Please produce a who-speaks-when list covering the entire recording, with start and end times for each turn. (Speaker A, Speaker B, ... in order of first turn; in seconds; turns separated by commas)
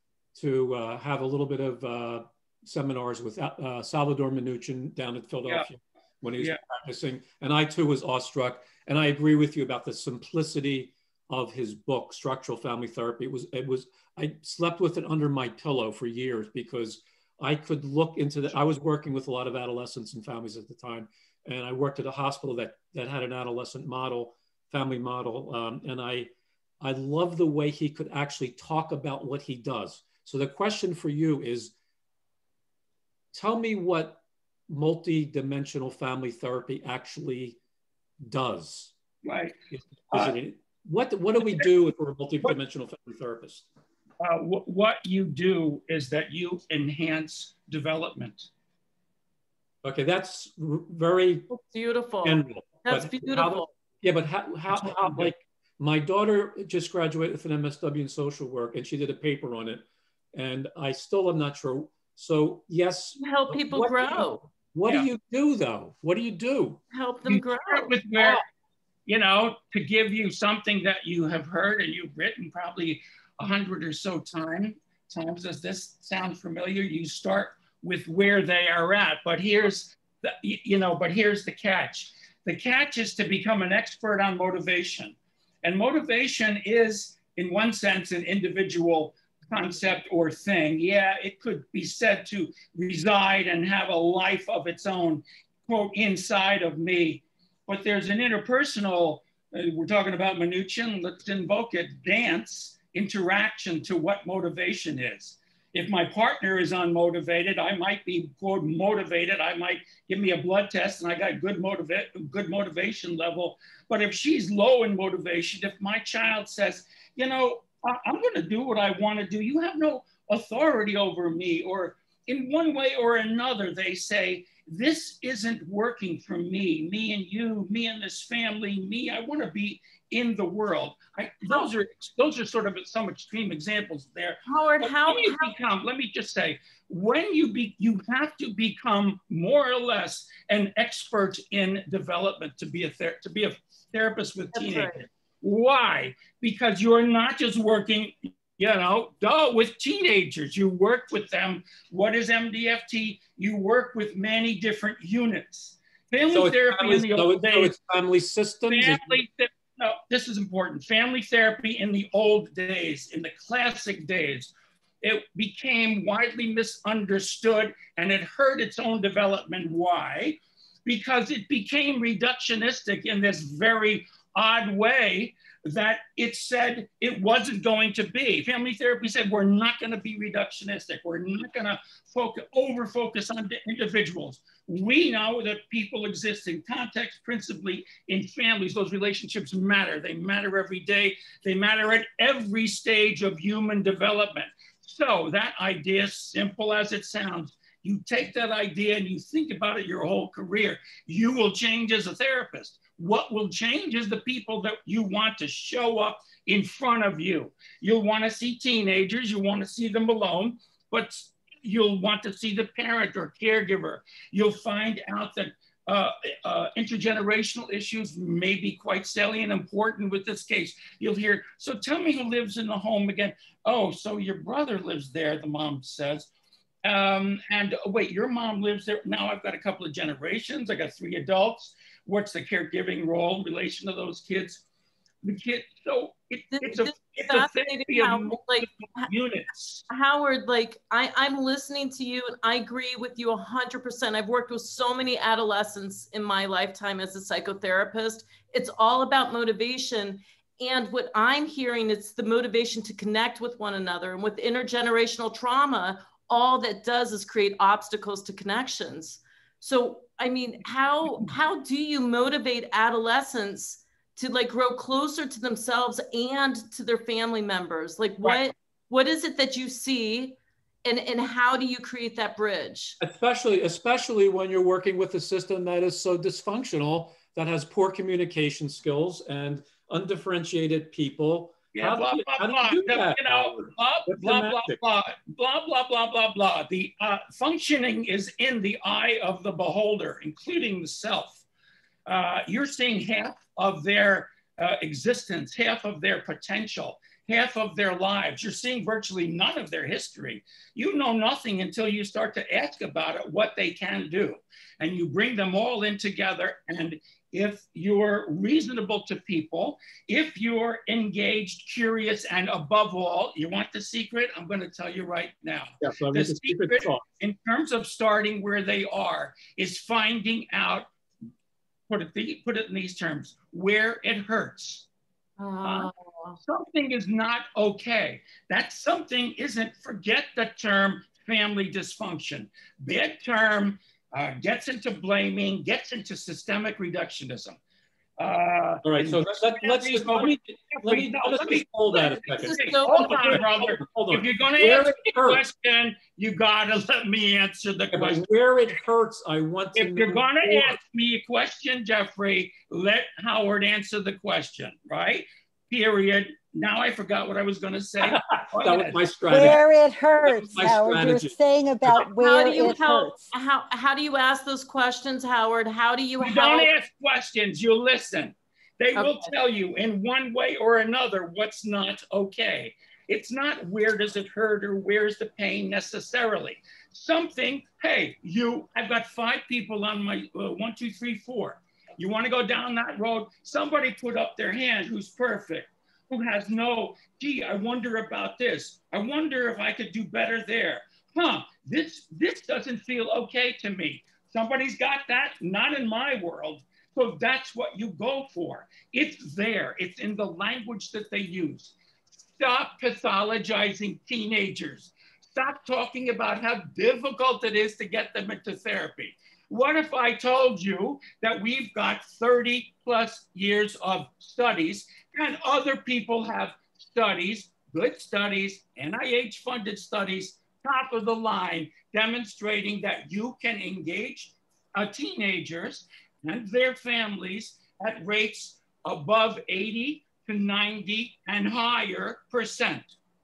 Speaker A: 0.3-31.7, Speaker A: 33.3-37.6, Speaker A: 38.3-38.9, Speaker B: 39.2-40.4, Speaker A: 39.7-43.7, Speaker B: 44.2-48.5, Speaker A: 49.8-51.5, Speaker C: 51.5-53.7, Speaker A: 52.2-66.8, Speaker B: 54.7-55.3, Speaker C: 63.2-64.5, Speaker C: 66.9-68.4, Speaker B: 67.3-68.5, Speaker B: 69.1-157.8, Speaker C: 134.5-135.5, Speaker C: 144.5-144.9, Speaker A: 156.3-159.2, Speaker B: 158.7-226.3, Speaker B: 226.8-234.7, Speaker B: 235.2-239.9, Speaker C: 236.5-239.1, Speaker C: 239.9-273.0, Speaker A: 273.0-284.8, Speaker B: 281.7-291.4, Speaker B: 292.1-320.9, Speaker A: 315.8-317.0, Speaker B: 321.9-324.9, Speaker C: 325.4-326.4, Speaker B: 325.6-325.9, Speaker B: 326.4-337.6, Speaker B: 338.2-348.2, Speaker A: 338.8-345.4, Speaker C: 341.9-343.5, Speaker A: 347.9-350.8, Speaker B: 349.8-359.5, Speaker A: 358.0-359.6, Speaker D: 359.3-363.3, Speaker A: 360.2-362.0, Speaker C: 362.0-366.7, Speaker B: 366.2-432.9, Speaker C: 369.0-369.3